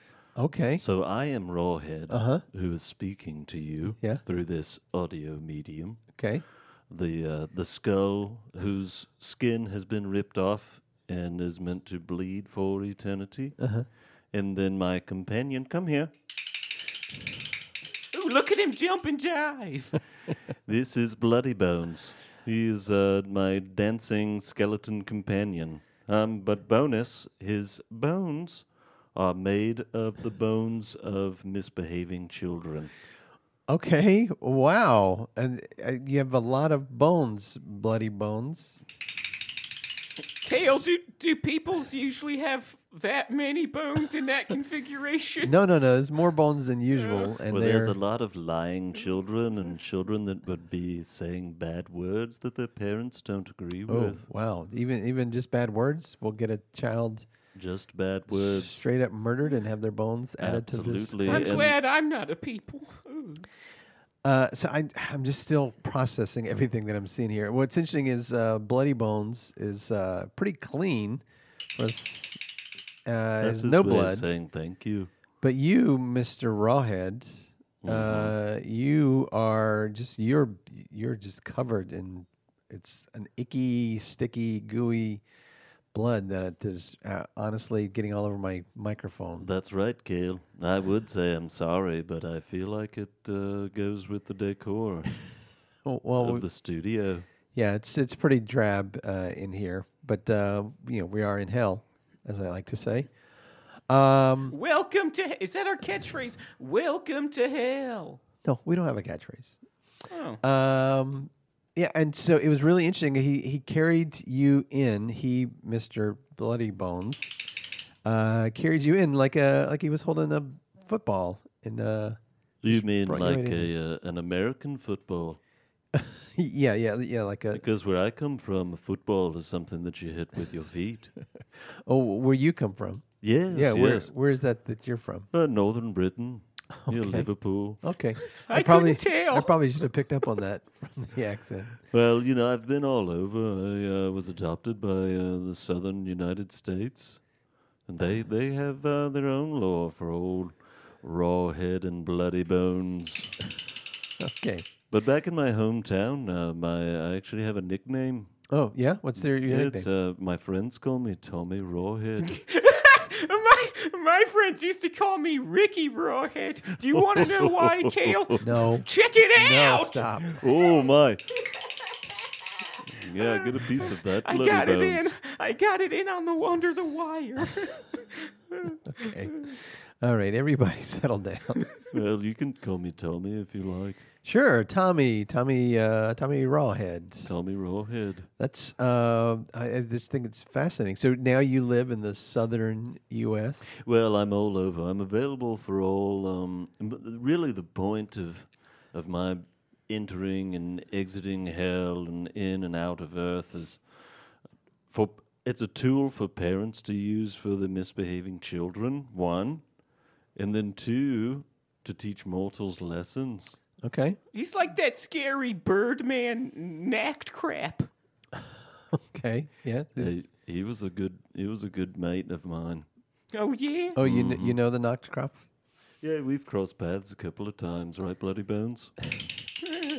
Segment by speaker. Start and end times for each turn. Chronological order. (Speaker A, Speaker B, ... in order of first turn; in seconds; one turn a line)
Speaker A: 0.4-0.8
Speaker B: 0.8-6.1
Speaker A: 2.1-2.4
Speaker A: 4.0-4.2
Speaker A: 6.2-6.4
Speaker B: 6.9-13.6
Speaker A: 13.6-13.9
Speaker B: 14.3-16.1
Speaker C: 18.1-20.0
Speaker B: 20.7-32.9
Speaker A: 33.7-38.8
Speaker C: 40.4-45.5
Speaker A: 40.5-40.9
Speaker A: 45.4-48.0
Speaker B: 47.5-54.2
Speaker A: 53.9-57.3
Speaker B: 57.5-58.8
Speaker A: 58.3-61.7
Speaker B: 60.4-61.8
Speaker C: 61.3-63.5
Speaker A: 64.2-72.4
Speaker A: 73.1-74.3
Speaker B: 73.4-75.1
Speaker A: 75.4-85.2
Speaker B: 77.8-78.4
Speaker A: 85.9-89.5
Speaker B: 89.4-95.2
Speaker A: 95.8-96.5
Speaker B: 96.2-97.2
Speaker A: 97.5-103.1
Speaker A: 103.9-104.5
Speaker C: 104.5-108.2
Speaker A: 108.4-109.6
Speaker C: 110.1-110.4
Speaker A: 110.4-117.3
Speaker A: 118.0-123.7
Speaker B: 122.6-125.4
Speaker A: 125.9-127.6
Speaker B: 127.5-131.1
Speaker A: 131.4-135.3
Speaker B: 133.2-134.1
Speaker B: 135.3-137.8
Speaker A: 136.8-137.3
Speaker A: 137.8-141.8
Speaker C: 138.3-139.6
Speaker B: 141.9-147.2
Speaker B: 147.9-153.4
Speaker A: 154.2-154.7
Speaker B: 154.9-158.3
Speaker A: 158.5-159.9
Speaker B: 159.2-162.4
Speaker C: 162.3-170.1
Speaker B: 166.9-168.4
Speaker A: 168.4-170.5
Speaker B: 170.3-171.2
Speaker C: 172.1-179.5
Speaker B: 172.9-175.1
Speaker A: 178.8-181.7
Speaker B: 181.9-184.1
Speaker A: 184.2-187.3
Speaker B: 187.2-188.3
Speaker A: 188.4-193.8
Speaker B: 193.7-204.3
Speaker B: 204.9-209.6
Speaker B: 210.3-213.6
Speaker A: 213.8-214.2
Speaker C: 214.3-217.9
Speaker A: 218.4-220.1
Speaker B: 220.0-222.9
Speaker C: 223.3-224.0
Speaker A: 224.0-225.4
Speaker B: 224.0-224.6
Speaker B: 226.0-228.9